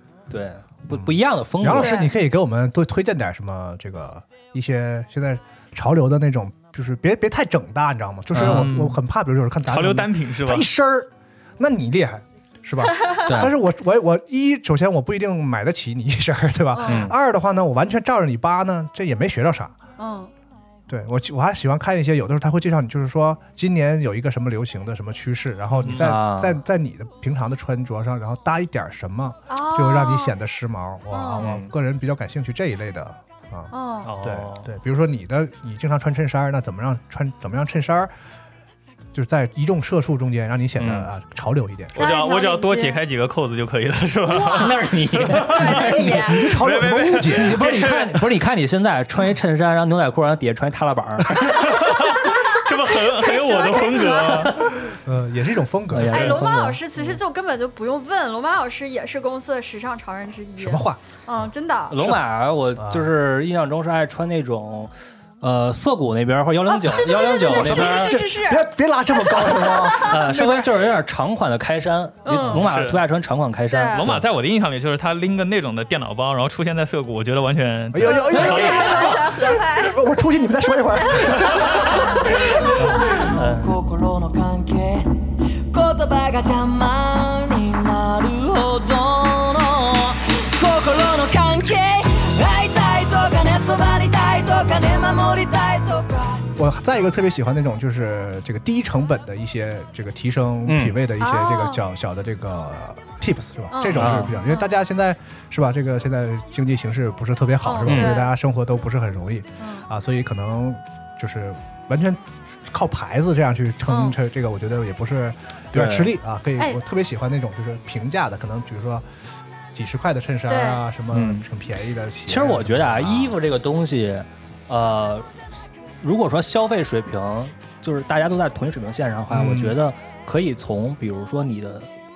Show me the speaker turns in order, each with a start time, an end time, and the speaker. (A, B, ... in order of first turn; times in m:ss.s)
0:00.3-0:02.0 A
0:00.9-0:19.8 B
0:01.8-0:02.1 C
0:08.3-0:08.9 A
0:08.4-0:09.0 D
0:09.6-0:10.7 D
0:13.3-0:13.5 A
0:16.7-0:17.1 C
0:16.8-0:17.2 A
0:20.0-0:20.3 C
0:20.9-0:38.1 B
0:25.9-0:26.6 A
0:29.5-0:30.3 C
0:31.1-0:31.5 C
0:31.4-0:31.7 A
0:33.7-0:34.1 C
0:34.0-0:34.6 D
0:39.1-0:42.0 B
0:40.8-0:41.1 A
0:42.0-0:48.1 D
0:42.0-0:43.0 C
0:44.3-0:46.2 A
0:45.5-0:46.6 C
0:46.0-0:48.2 B
0:47.3-0:51.8 A
0:51.6-0:54.7 D
0:51.7-0:54.7 C
0:54.8-0:56.4 B
0:55.9-0:56.8 A
0:56.0-1:02.0 C
1:00.6-1:02.2 B
1:01.9-1:04.9 A
1:02.8-1:03.1 B
1:05.4-1:08.2 A
1:06.7-1:10.7 C
1:07.1-1:10.6 B
1:10.0-1:14.1 A
1:12.2-1:12.6 C
1:12.3-1:13.0 D
1:13.7-1:14.0 C
1:13.9-1:19.3 D
1:17.9-1:23.1 B
1:18.0-1:20.0 C
1:21.0-1:21.5 C
1:23.1-1:36.5 E
1:23.2-1:23.8 A
1:36.6-1:59.1 B
1:40.7-1:41.0 A
1:41.2-1:41.8 C
1:43.7-1:44.8 C
1:44.0-1:44.3 A
1:47.6-1:48.3 C
1:47.8-1:48.2 A
1:49.6-1:49.9 C
1:53.9-1:54.2 C
1:55.7-1:56.2 A
1:59.7-2:03.4 B
2:00.5-2:00.8 C
2:01.1-2:01.5 A
2:02.3-2:05.3 A
2:06.0-2:11.9 A
2:09.3-2:09.8 B